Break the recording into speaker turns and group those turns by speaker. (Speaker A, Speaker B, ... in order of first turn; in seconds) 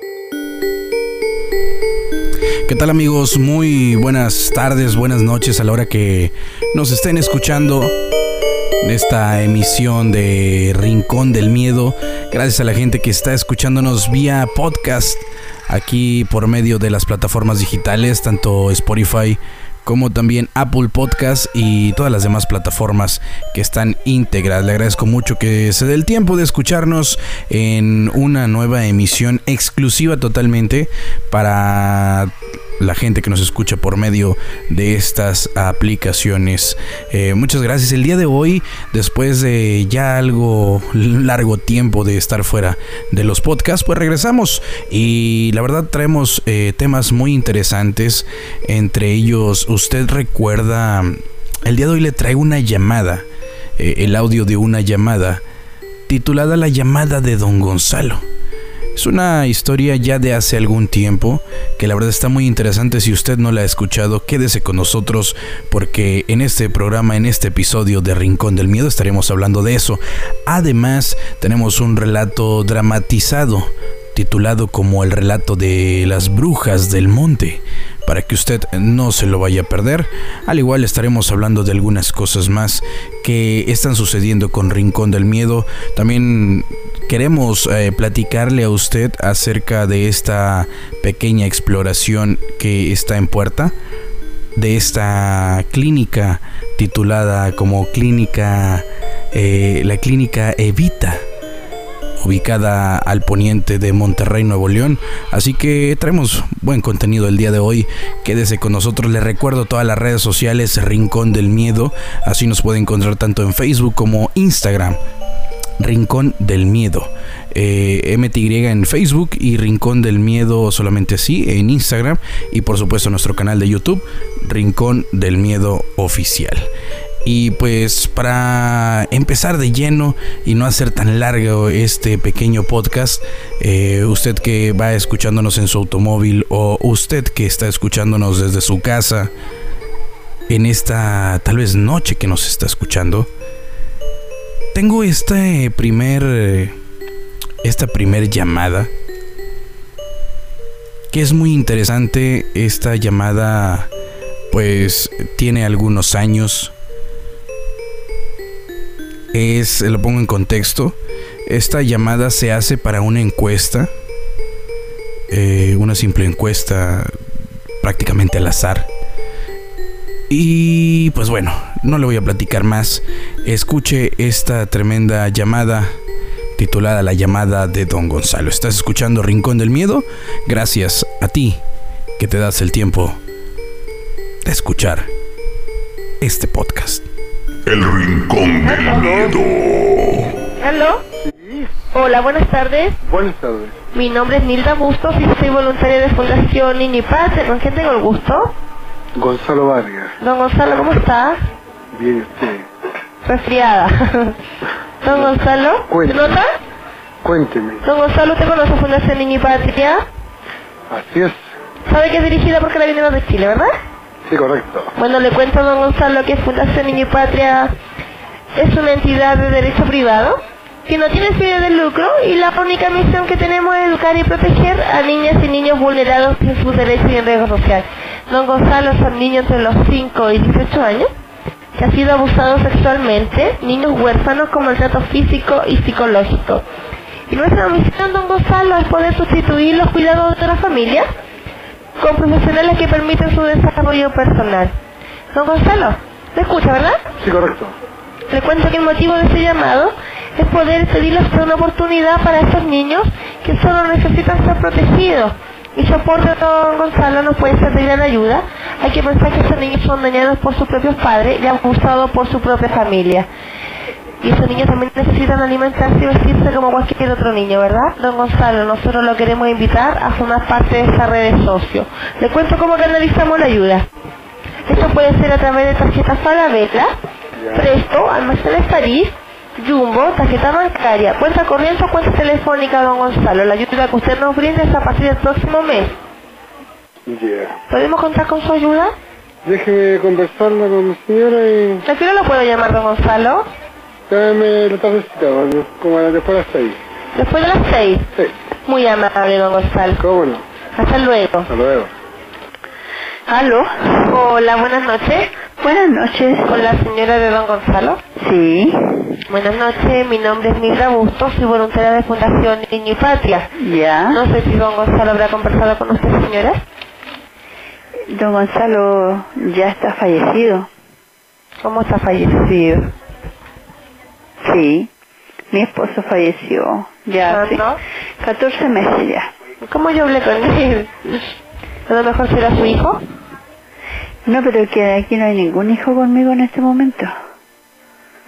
Speaker A: 2.7-7.9, 8.8-53.2, 53.8-55.4, 56.1-58.2, 59.0-93.7, 94.5-101.2, 102.2-115.0, 115.8-126.7, 127.2-139.3, 140.5-143.3, 144.7-146.7, 147.6-148.9, 151.1-153.9, 154.5-156.7, 159.3-163.9, 165.3-167.1, 167.8-168.9, 170.3-176.0, 176.6-181.6, 182.2-183.2, 184.4-185.1, 186.2-187.0
Speaker B: 187.7-190.3
Speaker C: 190.6-191.0, 191.9-193.0, 193.9-198.5, 200.2-201.4, 203.2-204.4, 205.0-206.5, 207.8-210.0, 211.9-213.7, 214.9-217.7, 218.6-231.1, 231.8-236.6, 237.3-241.1, 242.0-244.7, 245.3-247.0, 248.3-263.3, 264.2-273.9, 274.7-276.9, 277.5-285.9, 287.7-288.9, 291.8-293.5, 297.1-298.1, 298.6-300.0, 300.8-301.5, 304.1-305.3, 306.4-308.0, 309.3-313.5, 314.1-316.6, 321.6-322.9, 327.3-327.8, 329.6-331.3, 331.9-333.0
Speaker D: 191.3-191.7, 193.0-193.7, 199.2-200.1, 201.9-202.7, 205.1-206.4, 207.2-207.8, 210.9-211.4, 214.3-214.9, 247.2-247.7, 277.4-277.7, 287.1-287.6, 289.4-291.8, 294.1-296.8, 300.0-300.4, 301.5-301.9
Speaker E: 303.3-304.1, 305.6-306.6, 308.2-309.2, 313.6-314.2, 318.1-320.7, 324.4-324.9, 325.5-327.6, 328.2-329.3, 334.2-337.1